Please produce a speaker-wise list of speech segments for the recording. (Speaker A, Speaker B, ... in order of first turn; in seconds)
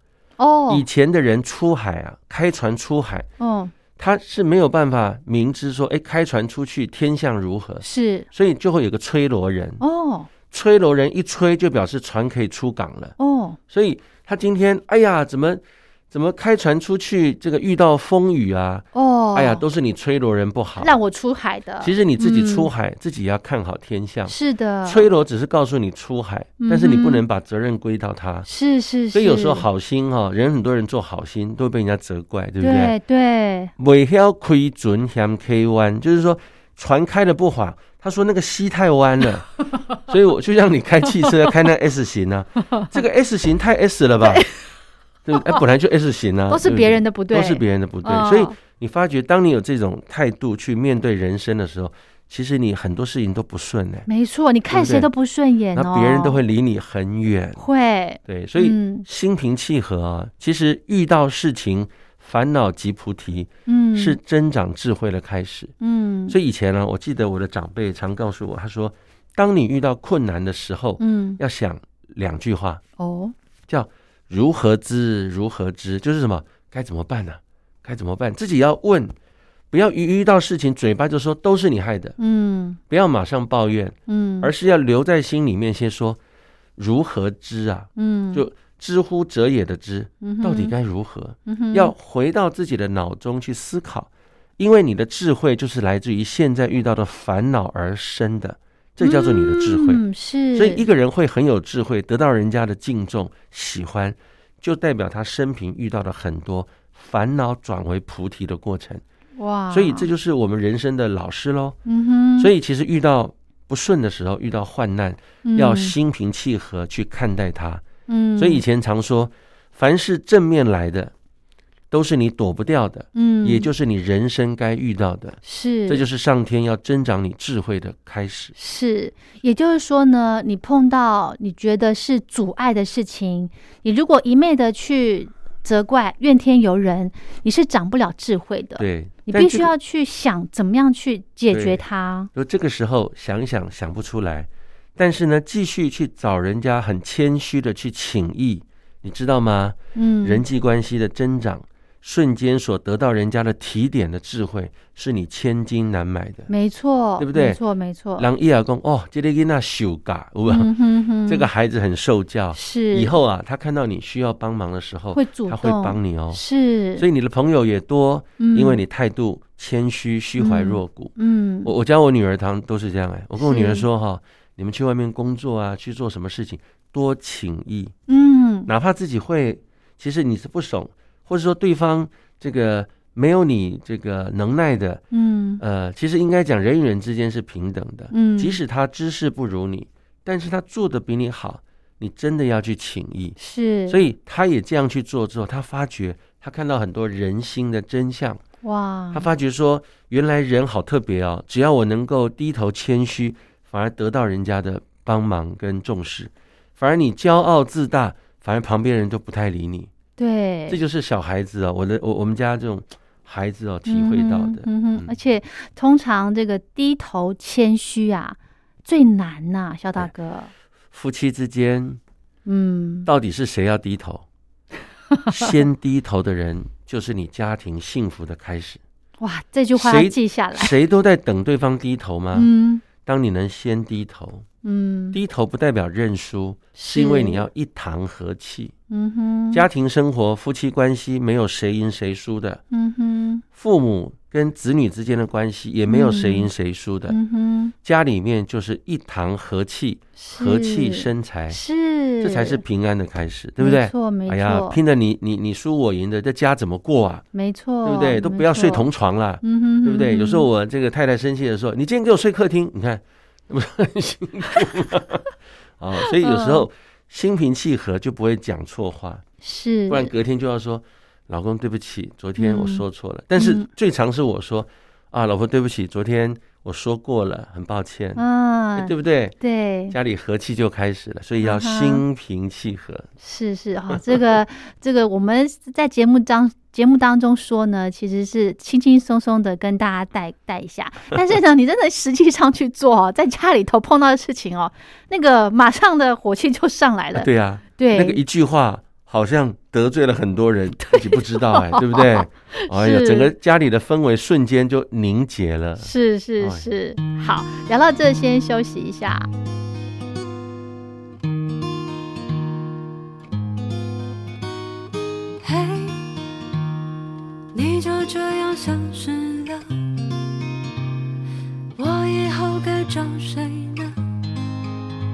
Speaker A: 0.4-0.8, 3.4-3.7, 7.8-8.3, 9.8-10.3, 13.2-13.6, 18.9-19.6, 20.8-22.7, 24.3-25.1, 26.6-27.2, 28.5-29.7, 32.6-33.7, 46.5-48.5, 54.1-56.4, 57.6-59.1, 63.7-64.2, 65.8-66.4, 71.0-71.4, 73.0-73.3, 82.2-82.8, 84.1-84.5, 88.0-88.5, 90.2-90.7, 91.5-91.9, 99.0-100.8, 109.4-110.1, 111.9-112.5, 115.5-116.0, 118.1-118.6, 123.2-123.7, 125.5-126.0, 128.6-142.3, 149.9-150.4, 156.5-158.3, 160.5-161.5, 162.5-163.2, 165.1-167.0, 168.4-168.8, 170.4-171.7, 173.4-173.9, 178.1-178.7, 185.1-185.6, 188.1-188.6, 193.4-194.0, 198.6-199.3, 210.2-210.8, 213.9-220.5, 222.5-223.1, 225.2-225.6, 229.2-230.7, 232.3-232.8, 234.6-235.2, 236.8-237.5, 238.9-239.7, 242.7-243.4, 245.9-246.5, 247.1-247.7, 250.2-252.6, 253.6-254.8, 257.3-258.9, 259.4-260.5, 266.2-266.7, 269.4-270.1, 272.4-272.9, 273.4-273.7, 278.2-279.9, 281.4-282.0, 283.2-298.2, 300.9-303.3, 305.8-309.3
Speaker B: 0.7-3.3, 4.0-9.8, 10.5-13.2, 13.7-20.9, 21.8-28.5, 29.1-33.0, 33.8-39.5, 40.0-44.5, 45.3-54.1, 54.7-55.1, 55.7-57.6, 58.2-65.7, 66.3-72.8, 73.7-79.1, 79.7-82.2, 82.9-86.2, 86.8-100.0, 100.5-109.0, 109.7-111.8, 112.4-117.8, 118.4-121.1, 121.9-128.6, 138.8-139.7, 141.5-141.8, 142.3-156.5, 157.2-157.6, 158.2-160.7, 161.3-166.4, 167.0-171.1, 171.7-177.9, 178.7-185.0, 185.6-193.4, 193.9-198.4, 199.1-209.9, 210.7-215.2, 220.9-222.0, 223.1-224.2, 225.3-228.8, 229.7-234.4, 235.1-238.7, 239.5-242.6, 243.5-247.2, 247.8-251.6, 252.2-257.2, 257.8-269.2, 269.9-278.2, 278.8-279.4, 279.9-283.1, 297.1-306.7
Speaker C: 315.4-316.1, 317.5-319.7, 321.8-324.0